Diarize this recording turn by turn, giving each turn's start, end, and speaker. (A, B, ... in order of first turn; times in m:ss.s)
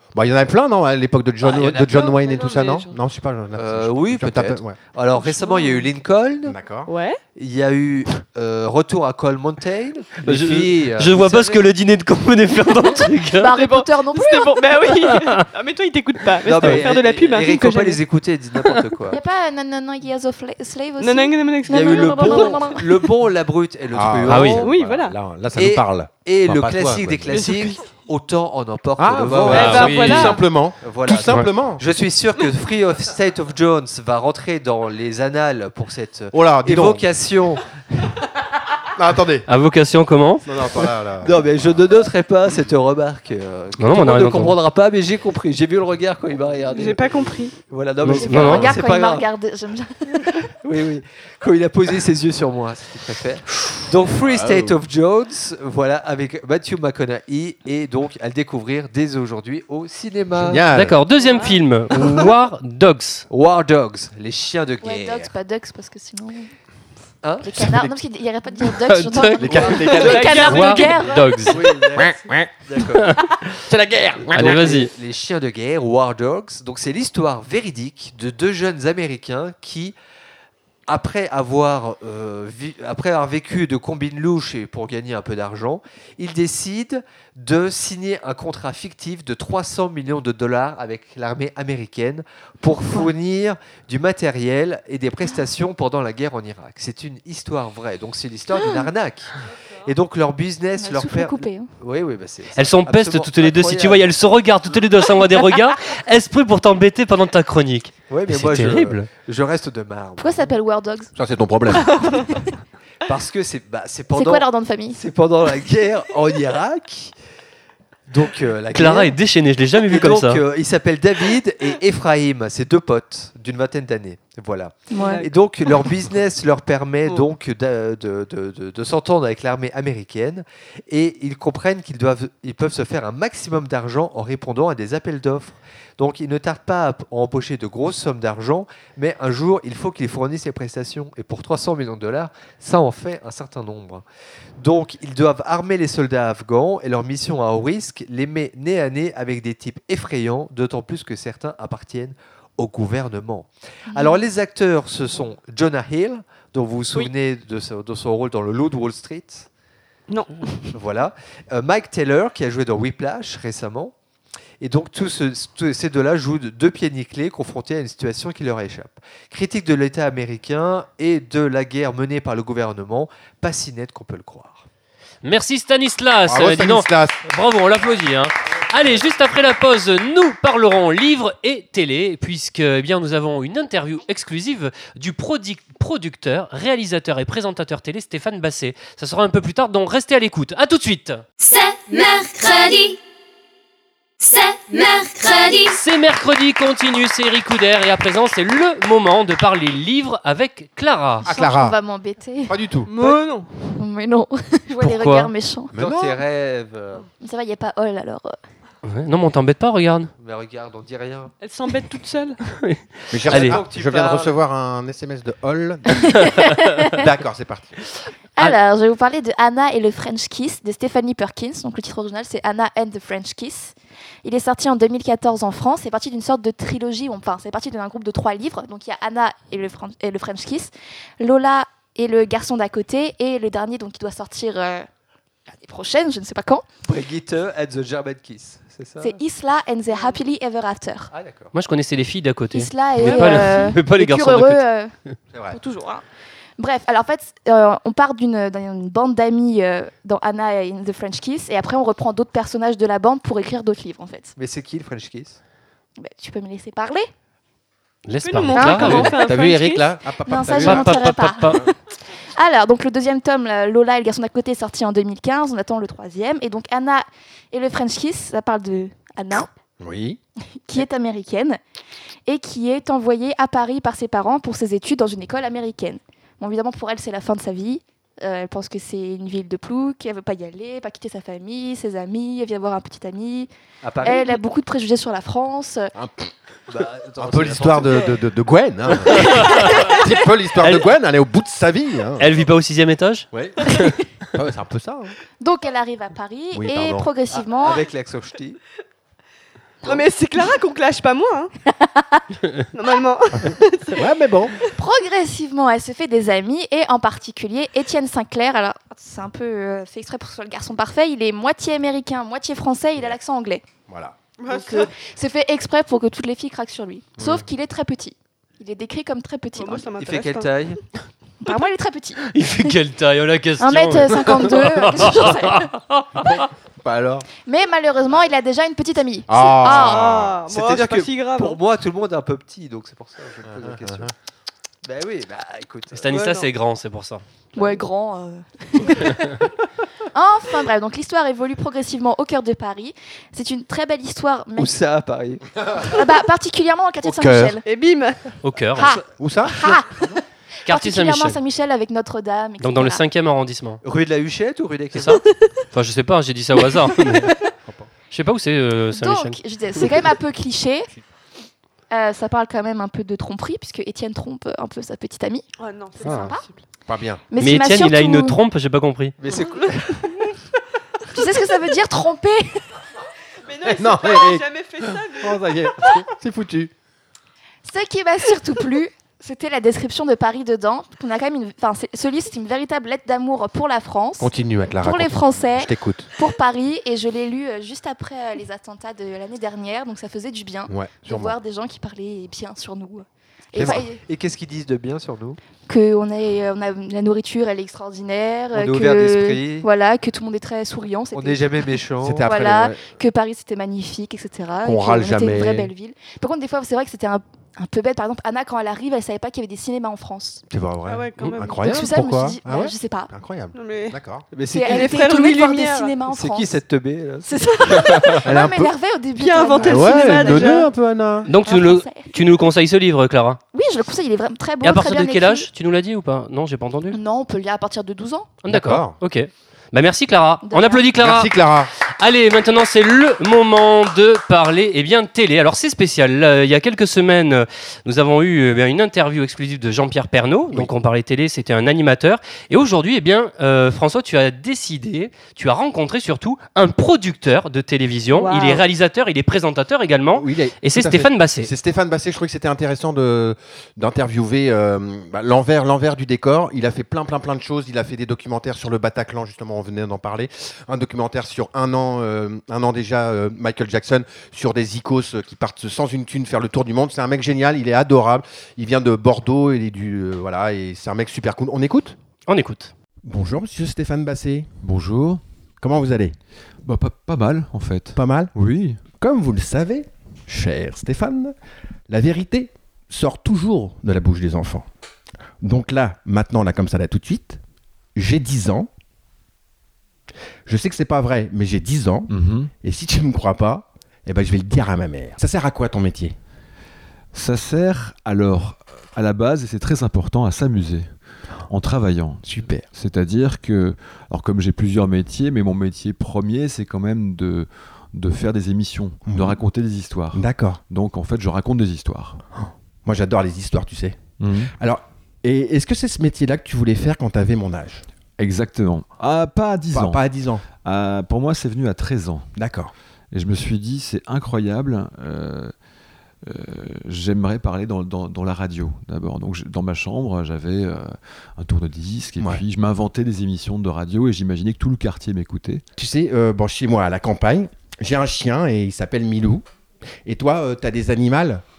0:00.1-0:04.8 A
0:01.4-0:02.3 B
0:02.0-0:02.9 C
0:03.6-0:06.6 B
0:05.2-0:05.9 C
0:06.4-0:06.9 A
0:06.9-0:07.2 C
0:07.4-0:11.7 B
0:10.2-0:13.5 D
0:13.4-0:14.8 E
0:13.5-0:18.0 C
0:15.0-0:15.4 D
0:16.4-0:19.2 B
0:19.1-0:22.8 E
0:21.0-0:23.0 C
0:21.7-0:24.7 B
0:23.9-0:27.4 A
0:24.3-0:24.6 D
0:24.6-0:25.2 C
0:25.6-0:30.2 B
0:27.3-0:27.8 C
0:29.0-0:31.8 A
0:29.5-0:30.4 C
0:29.5-0:30.4 D
0:30.8-0:38.1 B
0:36.3-0:37.1 A
0:38.9-0:39.5 A
0:39.5-0:40.4 D
0:40.4-0:41.4 A
0:41.2-0:49.2 B
0:43.8-0:44.5 D
0:46.7-0:47.6 C
0:48.0-0:48.8 D
0:48.1-0:50.4 E
0:50.6-1:00.6 B
0:54.0-0:54.8 A
1:00.4-1:01.0 A
1:00.7-1:03.2 D
1:01.2-1:01.6 C
1:03.3-1:05.3 B
1:04.8-1:06.5 E
1:07.2-1:08.0 B
1:07.4-1:11.6 E
1:08.7-1:11.6 D
1:09.4-1:10.5 A
1:09.5-1:13.2 B
1:10.0-1:10.7 C
1:11.6-1:12.5 A
1:13.0-1:13.4 D
1:13.6-1:14.6 A
1:14.3-1:14.9 D
1:14.3-1:20.0 B
1:20.9-1:39.3 B
1:39.8-1:44.1 B
1:40.8-1:41.7 E
1:42.6-1:49.1 D
1:48.1-1:50.5 B
1:50.2-1:51.1 E
1:51.2-1:52.2 A
1:51.9-1:52.3 C
1:52.1-1:52.4 E
1:53.0-1:57.1 B
1:54.1-1:55.0 E
1:58.1-1:59.1 B
1:58.7-2:00.4 D
1:59.9-2:24.0 B
2:04.9-2:05.2 E
2:05.0-2:05.3 C
2:24.6-2:39.5 B
2:33.9-2:34.2 E
2:40.1-2:40.7 C
2:40.7-2:43.9 B
2:44.6-2:54.6 B
2:55.2-3:11.2 D
2:56.2-2:57.2 A
3:11.4-3:13.0 F
3:14.2-3:15.8 F
3:15.7-3:21.2 D
3:21.2-3:21.8 A
3:21.2-3:22.6 E
3:22.5-3:23.0 A
3:22.9-3:23.7 C
3:23.7-3:25.7 E
3:24.8-3:25.3 D
3:25.7-3:26.2 A
3:25.7-3:27.1 B
3:27.2-3:28.4 E
3:28.8-3:30.1 D
3:30.2-3:31.3 B
3:31.4-3:32.4 C
3:32.5-3:33.6 D
3:33.1-3:36.4 A
3:33.3-3:34.4 B
3:36.0-3:37.1 E
3:36.9-3:37.8 A
3:38.4-3:54.9 E
3:55.6-3:56.6 E
3:56.8-3:59.2 B
3:59.0-4:01.1 E
4:01.1-4:01.5 B
4:01.5-4:04.6 D
4:02.5-4:04.9 E
4:03.0-4:03.7 C
4:05.3-4:05.6 A
4:05.5-4:06.0 E
4:06.6-4:14.4 E
4:14.4-4:15.4 B
4:16.0-4:17.1 E
4:18.1-4:19.1 D
4:18.2-4:19.9 C
4:18.5-4:19.3 E
4:19.0-4:21.7 A
4:20.2-4:21.7 E
4:20.5-4:21.6 D
4:22.3-4:29.5 E
4:29.8-4:30.2 A
4:30.6-4:31.6 E
4:32.3-4:43.5 E
4:43.8-4:44.4 B
4:44.0-4:45.9 E
4:45.9-4:46.3 A
4:46.7-4:48.2 B
4:47.2-4:52.3 A
4:49.3-4:49.8 D
4:52.2-4:53.9 D
4:53.3-4:55.1 A
4:55.4-4:57.8 E
4:56.5-4:57.1 A
4:57.3-4:58.6 B
4:59.8-5:01.5 C
5:02.0-5:02.2 E
5:02.7-5:04.0 C
5:03.9-5:04.5 A
5:04.7-5:13.6 E
5:13.9-5:14.2 A
5:14.4-5:14.9 C
5:14.5-5:19.9 E
5:17.2-5:17.5 A
5:19.6-5:20.5 C
5:20.0-5:20.8 B
5:21.4-5:22.4 E
5:22.3-5:26.4 D
5:23.6-5:25.7 E
5:26.2-5:27.3 A
5:27.4-5:30.1 E
5:29.3-5:30.4 A
5:29.6-5:31.6 C
5:30.5-5:34.1 B
5:33.4-5:34.1 A
5:34.8-5:36.3 B
5:35.9-5:37.2 D
5:36.1-5:36.5 C
5:37.5-5:39.4 E
5:40.1-5:44.7 E
5:44.6-5:45.8 B
5:45.8-5:47.6 E
5:47.0-5:47.6 A
5:47.6-5:48.4 C
5:48.4-5:49.0 D
5:48.8-5:50.1 E
5:49.2-5:50.2 A
5:50.6-5:51.4 D
5:50.7-5:53.0 E
5:52.6-5:53.8 D
5:53.8-5:55.2 B
5:54.9-5:57.3 D
5:58.1-5:59.4 D
5:58.9-6:00.9 E
6:01.9-6:05.4 E
6:05.6-6:06.6 C
6:06.0-6:06.4 E
6:06.0-6:06.4 D
6:06.9-6:07.2 A
6:07.3-6:08.4 E
6:07.4-6:09.2 D
6:09.2-6:10.2 B
6:09.6-6:10.1 C
6:11.1-6:12.6 E
6:13.4-6:16.0 C
6:13.7-6:14.5 A
6:15.1-6:16.7 A
6:17.6-6:34.0 E
6:24.2-6:26.1 A
6:30.7-6:31.4 A
6:33.5-6:33.8 A
6:33.5-6:35.4 B
6:35.7-6:50.4 E
6:38.5-6:39.7 B
6:41.1-6:42.3 B
6:42.0-6:42.8 A
6:44.6-6:45.7 A
6:50.5-6:54.3 A
6:50.9-6:51.9 C
6:51.6-6:53.1 E
6:53.5-6:54.0 C
6:54.3-6:55.1 B
6:54.5-6:56.6 E
6:54.6-6:55.9 C
6:56.1-6:57.8 B
6:57.2-7:00.6 E
6:58.2-6:58.7 A
6:59.2-7:00.7 C
6:59.6-7:01.3 A
7:01.3-7:03.4 D
7:01.4-7:02.1 E
7:03.5-7:05.5 E
7:04.6-7:07.0 D
7:06.9-7:08.3 E
7:08.4-7:11.3 D
7:08.4-7:09.0 A
7:10.4-7:10.9 E
7:11.0-7:11.7 A
7:12.0-7:31.5 D
7:28.1-7:28.6 E
7:30.1-7:52.0 A
7:52.3-7:52.7 D
7:53.0-7:54.5 A
7:54.6-7:55.2 G
7:55.6-7:56.2 A
7:56.6-7:58.8 G
7:57.9-7:58.3 A
7:59.0-8:01.3 A
8:01.9-8:04.7 A
8:05.4-8:07.4 A
8:07.9-8:08.7 A
8:10.4-8:16.2 A
8:12.1-8:12.5 G
8:17.1-8:20.9 G
8:21.5-8:32.2 G
8:22.2-8:22.6 A
8:29.1-8:29.4 A
8:30.1-8:30.6 A
8:32.8-8:34.0 A
8:34.2-8:34.5 G
8:34.6-8:37.9 A
8:38.2-8:40.0 G
8:39.7-8:40.4 A
8:40.6-8:42.3 G
8:42.4-8:42.7 A
8:43.1-8:45.5 G
8:46.2-8:55.6 G
8:55.8-8:59.4 A
9:00.1-9:01.4 A